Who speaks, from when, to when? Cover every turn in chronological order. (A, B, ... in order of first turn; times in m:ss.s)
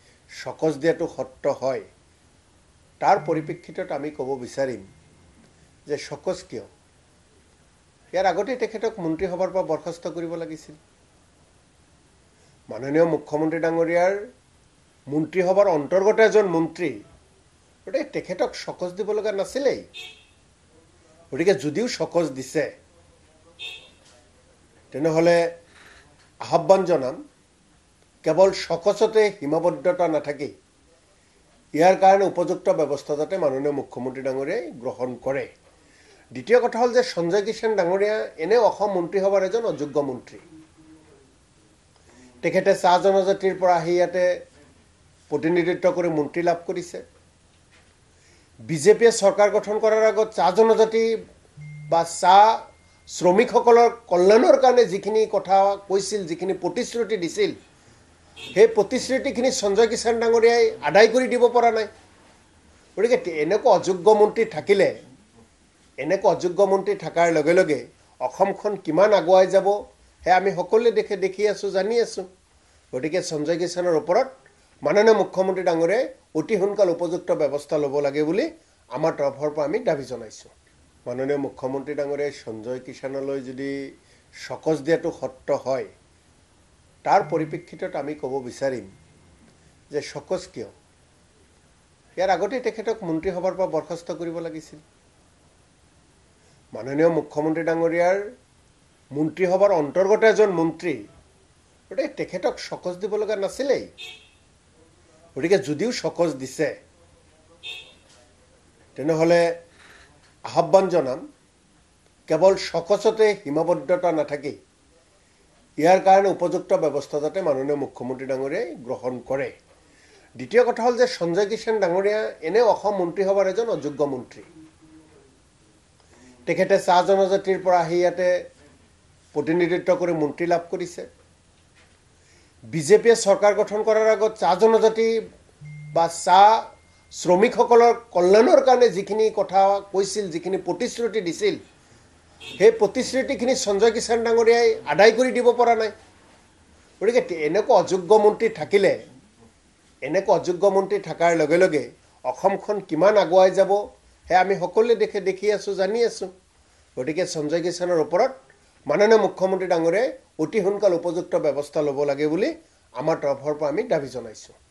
0:00.4-0:01.9 A
0:03.0-0:04.8 A
0:05.9-0:06.7 A
0:08.1-0:10.8 A
0:12.7-0:14.2 A
0:15.1-0:17.0 A
0:17.9-0:19.9 A
0:21.3-0:22.7 A
0:24.9-0:25.5 A
0:26.4-0:27.2 A
0:28.2-0:30.5 A
0:31.8-0:35.5 A
0:36.3-0:40.4 A
0:42.4-0:44.3 A
0:45.3-0:47.0 A
0:48.7-0:51.1 A
0:51.9-0:57.6 A
0:58.5-1:01.9 A
1:03.0-1:04.9 A
1:06.0-1:12.3 A
1:12.9-1:14.3 A
1:14.8-1:20.5 A
1:21.1-1:23.7 A
1:24.4-1:25.9 A
1:27.0-1:28.9 A
1:29.9-1:30.7 A
1:32.2-1:34.8 A
1:36.7-1:38.2 A
1:39.1-1:41.0 A
1:41.9-1:43.9 A
1:45.4-1:46.8 A
1:49.0-1:49.5 A
1:50.5-1:51.2 A
1:52.3-1:54.6 A
1:55.8-1:59.5 A
2:00.4-2:04.5 A
2:06.5-2:08.4 A
2:09.3-2:11.1 A
2:12.7-2:15.1 A
2:15.9-2:21.6 A
2:22.6-2:25.9 A
2:27.0-2:29.0 A
2:30.0-2:36.3 A
2:37.0-2:38.4 A
2:38.9-2:44.6 A